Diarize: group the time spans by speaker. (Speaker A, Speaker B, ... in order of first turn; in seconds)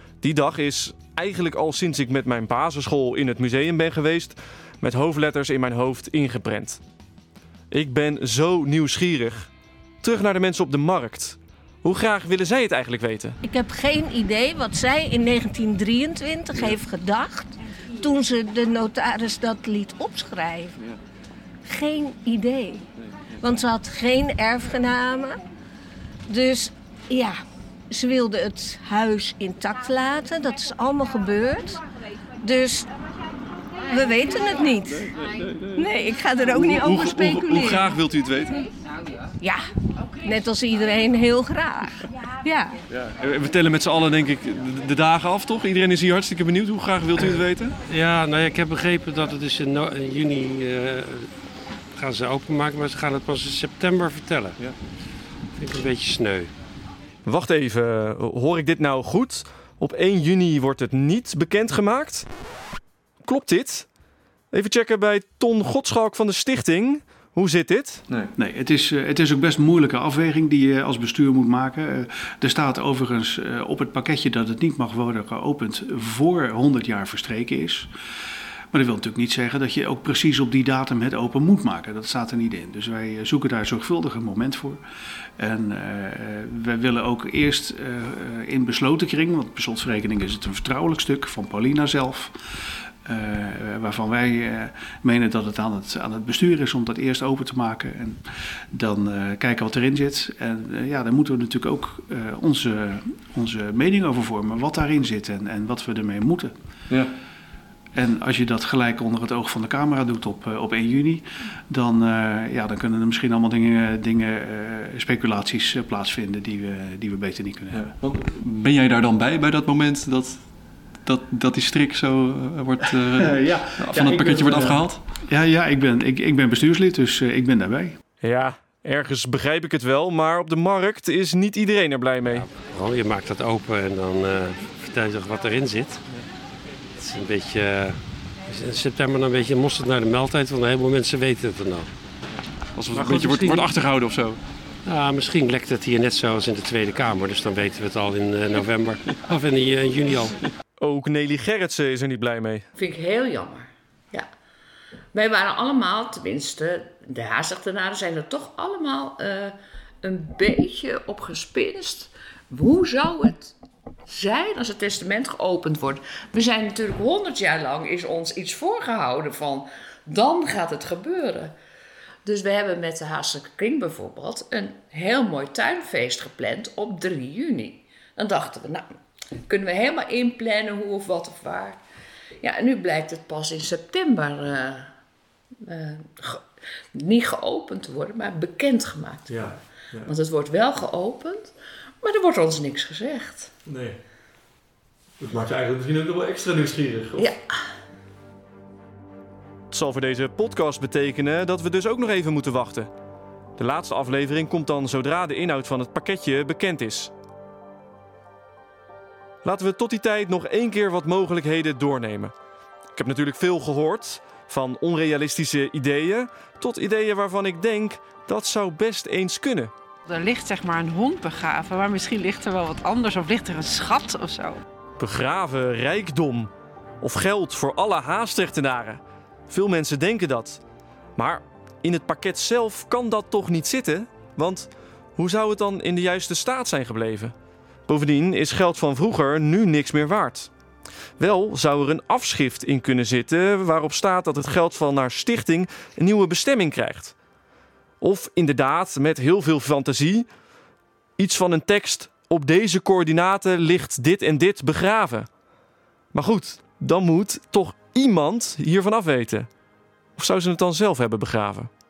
Speaker A: 0.2-6.8, 7.7-9.5, 10.0-13.4, 57.2-62.3, 63.2-63.9, 64.5-68.0, 128.2-132.5, 150.8-152.7, 199.7-202.9, 203.6-207.1, 209.4-212.3, 212.9-219.7, 225.0-226.5, 227.0-230.6, 231.2-237.3, 237.9-240.5, 241.2-247.1, 248.0-250.3, 251.2-255.3, 256.1-259.5, 260.2-261.7
Speaker B: 13.4-20.8, 21.6-22.9, 23.4-25.4, 26.3-27.4, 27.9-31.8, 32.4-32.9, 33.9-35.1, 35.8-38.0, 39.4-39.6, 40.2-42.8
Speaker C: 35.0-35.9, 36.5-38.6, 42.9-47.8, 117.7-120.5, 121.0-125.0, 142.8-144.4, 189.3-190.1, 193.7-194.0, 195.2-197.3
Speaker D: 47.9-51.3, 52.0-54.6, 55.5-56.5, 132.3-136.0, 136.9-141.9, 142.9-143.7, 144.9-150.4
Speaker E: 68.4-77.9, 78.7-84.8, 85.4-92.3, 93.0-106.5, 108.0-118.0, 123.1-128.0
Speaker F: 152.8-154.3, 155.1-163.5, 164.1-171.6, 172.2-181.8, 182.4-184.9, 185.6-193.5, 197.2-197.4
Speaker G: 220.1-224.6